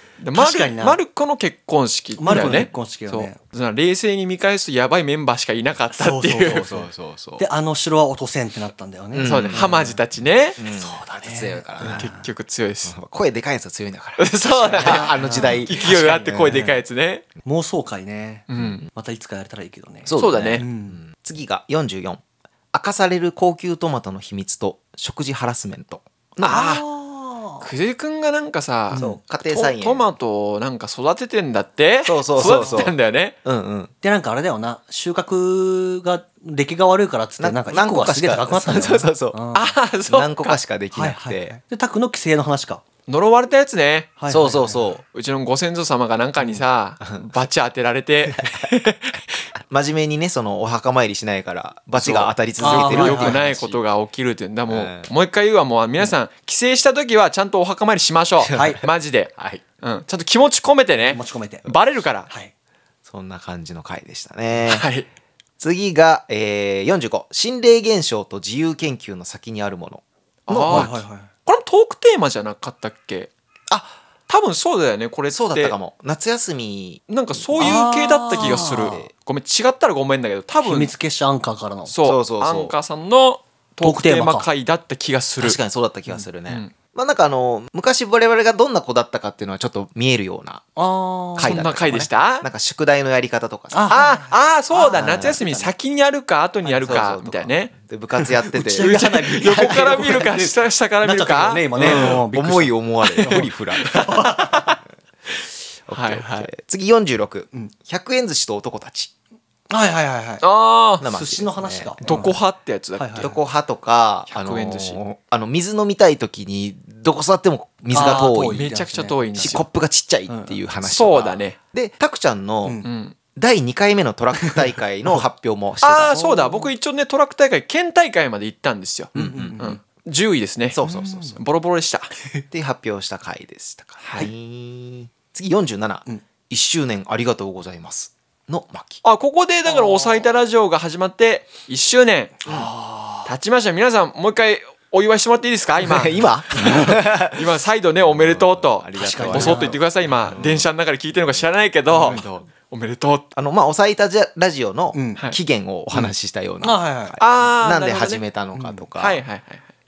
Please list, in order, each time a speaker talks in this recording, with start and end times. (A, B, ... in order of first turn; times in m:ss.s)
0:00.2-0:06.7 A
0:00.3-0:01.0 B
0:02.2-0:03.4 B
0:05.9-0:06.8 B
0:06.4-0:07.4 C
0:07.4-0:10.0 B
0:09.1-0:09.8 C
0:09.2-0:10.6 A
0:10.6-0:12.1 C
0:10.6-0:12.2 B
0:11.8-0:13.0 A
0:12.8-0:16.6 C
0:14.2-0:17.2 A
0:14.8-0:16.8 B
0:17.4-0:21.0 B
0:18.5-0:18.8 A
0:18.6-0:18.9 C
0:20.0-0:26.8 C
0:20.2-0:20.6 A
0:26.4-0:27.7 B
0:26.4-0:26.8 A
0:27.6-0:33.3 A
0:28.9-0:29.2 B
0:28.9-0:30.1 C
0:32.0-0:33.9 C
0:32.4-0:32.9 B
0:34.0-0:39.7 B
0:37.4-0:39.4 C
0:39.5-0:40.6 A
0:40.1-0:41.6 C
0:40.9-0:42.8 B
0:43.1-0:44.2 A
0:44.2-0:44.8 B
0:44.3-0:45.0 C
0:45.1-0:49.2 A
0:49.7-0:53.8 C
0:52.0-1:02.3 A
0:52.6-0:53.4 B
0:54.7-0:55.1 C
0:58.4-0:58.8 C
0:58.5-0:58.8 B
0:59.4-0:59.6 C
1:01.1-1:01.6 B
1:03.0-1:04.9 C
1:04.7-1:05.0 A
1:05.6-1:10.9 C
1:10.5-1:13.3 A
1:10.7-1:11.3 B
1:13.7-1:14.0 C
1:14.3-1:15.8 A
1:15.3-1:19.1 C
1:17.1-1:20.9 A
1:17.6-1:19.0 B
1:20.6-1:21.9 B
1:21.9-1:25.6 A
1:22.0-1:22.7 C
1:23.8-1:24.5 B
1:25.4-1:30.6 C
1:30.8-1:31.6 B
1:31.4-1:33.9 C
1:31.4-1:32.5 A
1:33.7-1:35.4 B
1:33.9-1:37.8 A
1:34.9-1:35.7 C
1:36.6-1:37.0 B
1:36.8-1:38.9 C
1:38.2-1:44.8 B
1:38.7-1:42.2 A
1:39.5-1:40.0 C
1:41.8-1:44.0 C
1:43.2-1:44.8 A
1:45.9-1:49.1 C
1:45.9-1:46.5 A
1:49.7-1:50.4 B
1:50.4-1:51.0 A
1:51.0-1:52.2 C
1:51.0-1:52.4 B
1:52.0-1:53.3 A
1:53.0-1:53.3 B
1:53.2-1:58.7 C
1:54.3-1:55.0 A
1:57.9-1:59.5 B
1:58.0-1:59.6 A
1:59.4-2:02.8 C
2:00.3-2:00.6 B
2:00.8-2:01.6 A
2:02.8-2:03.2 A
2:03.3-2:06.2 C
2:05.8-2:10.8 A
2:06.1-2:06.7 B
2:09.1-2:09.7 C
2:09.1-2:09.8 B
2:10.7-2:11.4 C
2:10.8-2:11.4 B
2:11.3-2:12.1 A
2:12.5-2:19.0 C
2:14.0-2:14.3 A
2:19.0-2:22.4 A
2:19.7-2:20.2 B
2:22.4-2:23.3 B
2:23.2-2:33.2 A
2:25.8-2:30.7 C
2:26.6-2:26.9 B
2:28.9-2:29.7 B
2:31.9-2:32.5 C
2:33.3-2:39.2 C
2:34.9-2:35.2 B
2:36.6-2:37.2 B
2:37.2-2:38.2 A
2:39.0-2:39.7 A